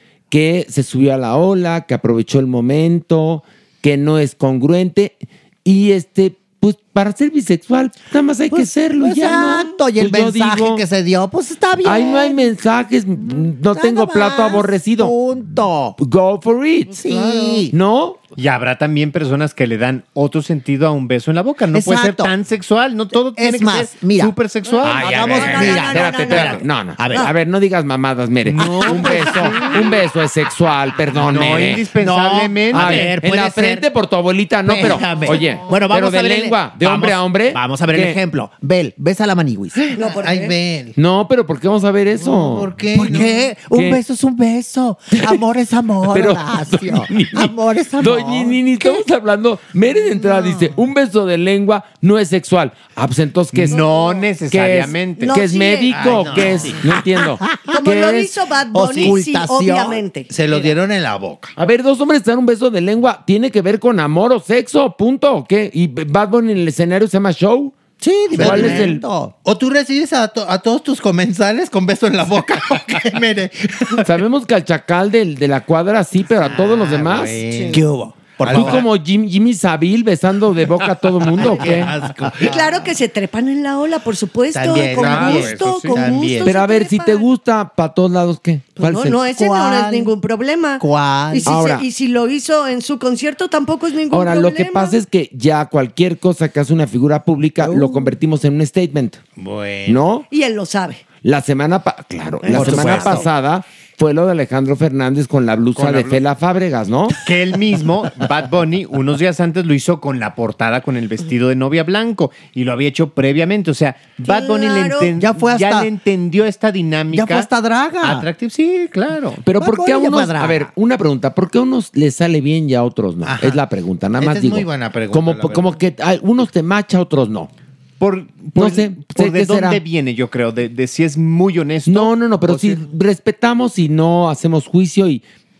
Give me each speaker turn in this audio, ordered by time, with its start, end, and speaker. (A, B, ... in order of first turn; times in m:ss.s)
0:00.3-0:10.8 A
0:08.5-0:12.5 B
0:11.8-0:15.2 A
0:13.7-0:16.0 B
0:16.0-0:17.0 A
0:16.9-0:17.7 B
0:17.1-0:17.6 C
0:17.7-0:18.2 A
0:18.4-0:25.3 D
0:21.7-0:22.3 B
0:23.1-0:24.3 B
0:24.8-0:31.9 A
0:24.8-0:27.3 E
0:24.9-0:27.3 B
0:28.6-0:29.7 B
0:31.2-0:33.1 D
0:32.0-0:33.8 B
0:32.7-0:38.2 A
0:34.6-0:39.8 B
0:39.7-0:41.0 C
0:39.9-0:40.6 E
0:41.0-0:43.2 A
0:42.2-0:43.5 C
0:42.9-0:48.6 B
0:43.7-0:44.0 A
0:46.1-0:53.8 A
0:50.3-0:50.6 C
0:53.6-0:55.4 D
0:53.7-0:54.2 E
0:54.5-0:58.3 A
0:55.2-0:56.5 E
0:55.9-0:56.8 C
0:57.4-0:57.8 B
0:57.7-1:00.7 E
0:58.7-1:00.0 B
1:00.3-1:01.5 C
1:01.6-1:07.8 A
1:08.0-1:09.3 B
1:08.3-1:08.9 C
1:08.3-1:09.0 A
1:09.4-1:14.1 C
1:14.0-1:17.4 A
1:16.4-1:18.8 C
1:17.6-1:18.8 B
1:18.5-1:21.9 A
1:21.3-1:22.9 C
1:22.4-1:27.2 E
1:24.5-1:26.5 C
1:24.8-1:26.2 D
1:26.4-1:29.2 A
1:28.8-1:35.0 E
1:29.2-1:30.1 B
1:30.8-1:31.6 B
1:31.4-1:31.8 A
1:34.1-1:39.2 A
1:37.6-1:38.1 B
1:39.4-1:40.0 C
1:39.9-1:40.3 A
1:40.3-1:41.0 E
1:41.2-1:47.2 A
1:42.4-1:43.1 E
1:42.5-1:43.3 B
1:45.7-1:46.2 D
1:47.2-1:57.5 D
1:54.2-1:55.2 E
1:55.2-1:55.9 B
1:57.1-1:58.3 B
1:58.0-1:59.4 D
1:59.4-2:07.5 A
1:59.5-2:00.7 B
2:03.2-2:03.6 C
2:04.2-2:05.7 C
2:08.0-2:12.8 D
2:08.5-2:09.8 A
2:11.8-2:15.2 A